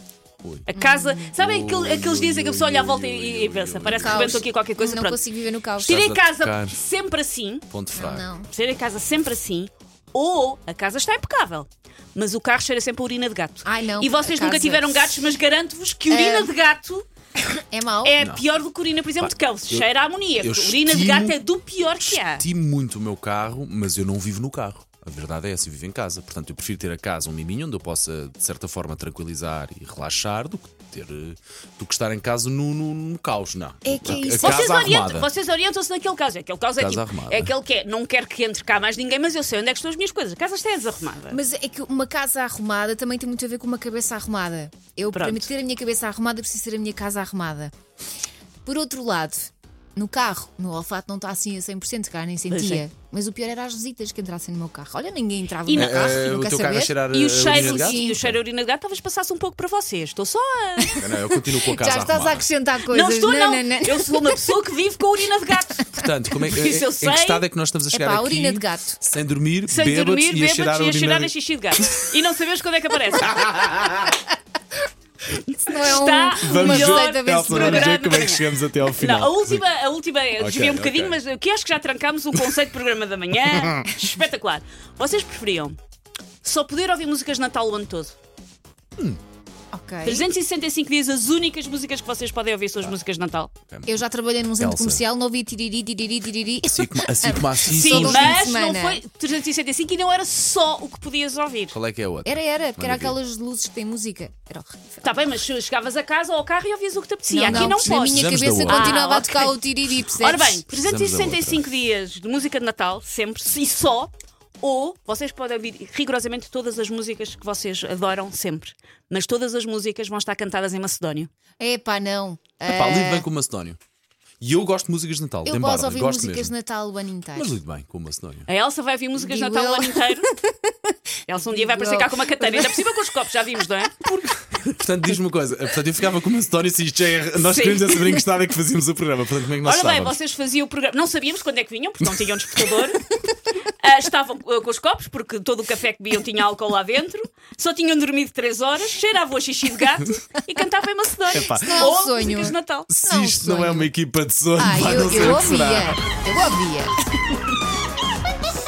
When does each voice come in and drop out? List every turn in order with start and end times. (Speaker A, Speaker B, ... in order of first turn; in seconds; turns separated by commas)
Speaker A: 0.4-0.7, Speaker B: 0.7-5.2, Speaker C: 0.7-1.3, Speaker A: 1.3-4.4, Speaker C: 4.0-6.0, Speaker A: 5.8-6.8, Speaker B: 5.8-7.7, Speaker A: 7.7-8.2, Speaker C: 7.9-8.5, Speaker B: 8.5-17.1, Speaker C: 13.6-15.0, Speaker C: 16.1-16.5, Speaker C: 17.6-18.2, Speaker B: 18.0-22.4, Speaker A: 19.2-19.9, Speaker A: 20.4-21.4, Speaker A: 21.9-35.3, Speaker C: 33.8-34.8, Speaker B: 34.4-41.4, Speaker A: 36.8-37.5, Speaker C: 41.3-47.7, Speaker B: 45.1-45.5, Speaker C: 48.6-58.2, Speaker B: 52.5-52.8, Speaker B: 55.6-56.2, Speaker A: 55.7-58.4, Speaker B: 57.1-61.0, Speaker C: 60.8-64.5, Speaker A: 61.0-62.5, Speaker B: 62.9-67.4, Speaker A: 65.9-72.1, Speaker C: 67.9-69.0, Speaker B: 69.7-73.5, Speaker A: 73.2-74.2, Speaker B: 75.3-85.8, Speaker C: 75.7-78.0, Speaker A: 76.3-79.6, Speaker A: 80.4-81.2, Speaker B: 86.4-88.1, Speaker C: 89.7-90.3, Speaker B: 90.0-93.5, Speaker A: 93.7-94.0, Speaker C: 93.9-99.0, Speaker A: 94.6-95.0, Speaker A: 96.6-98.4, Speaker B: 97.7-101.8, Speaker A: 101.7-103.2, Speaker C: 102.2-105.2, Speaker B: 105.0-121.3, Speaker C: 107.3-110.6, Speaker A: 107.5-109.0, Speaker A: 110.6-111.7, Speaker C: 121.6-123.2, Speaker A: 122.7-123.8, Speaker A: 124.4-126.5, Speaker C: 125.4-127.5, Speaker A: 127.3-128.5, Speaker B: 128.5-130.3, Speaker C: 129.2-130.7, Speaker B: 131.3-134.1, Speaker C: 131.3-132.8, Speaker A: 134.0-140.1, Speaker B: 137.4-138.0, Speaker B: 139.6-143.0, Speaker A: 142.0-142.7, Speaker B: 143.8-152.9, Speaker A: 151.3-152.0, Speaker C: 151.5-153.9, Speaker A: 152.9-156.0, Speaker C: 154.6-156.9